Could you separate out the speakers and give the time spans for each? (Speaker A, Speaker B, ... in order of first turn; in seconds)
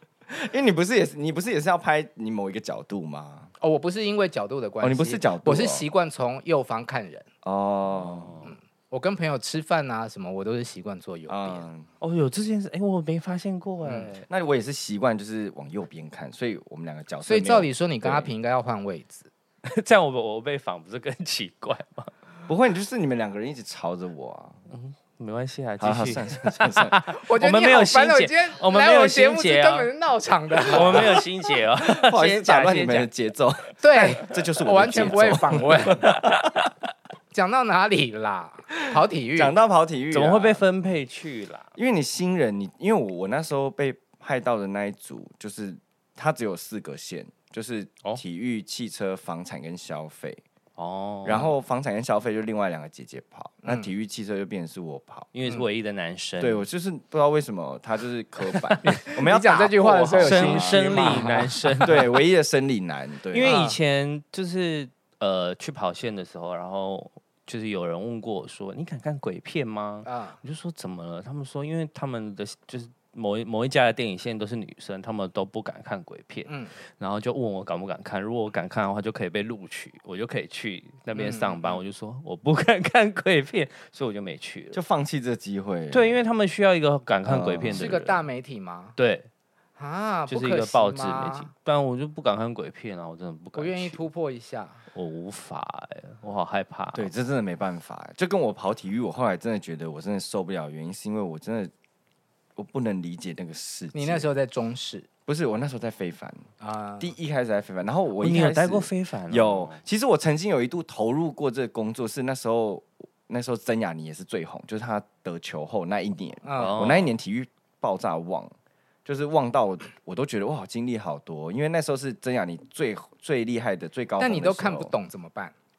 Speaker A: 0.3-3.5, 4.8-5.8, 7.4-8.4, 11.3-11.9, 14.3-18.3, 22.5-24.6, 25.8-27.0, 30.7-31.2, 31.8-36.6, 39.4-40.7, 41.8-50.4, 51.2-55.3, 56.4-63.6, 84.7-86.2, 87.2-88.0, 96.9-101.7, 102.6-104.3, 105.3-106.5, 107.0-118.5, 119.0-124.9
Speaker B: 3.6-7.3, 8.5-11.7, 13.8-14.1, 17.3-19.3, 27.1-31.2, 33.8-36.0, 37.3-39.5, 53.6-53.9, 58.8-61.8, 63.4-63.8, 70.0-70.4, 76.5-76.7, 81.2-81.8, 87.7-89.0, 89.8-91.5, 93.5-94.8, 103.9-105.1, 106.6-107.1, 116.4-116.8, 124.2-125.5
Speaker C: 7.9-8.5, 12.0-14.3, 19.6-22.1, 24.7-29.9, 30.7-33.1, 40.1-41.7, 50.8-51.5, 55.3-56.6, 58.4-58.9, 60.2-62.2, 63.3-84.8, 85.9-88.2, 89.0-89.3, 90.3-94.0, 94.9-97.1, 108.2-109.8, 116.6-117.1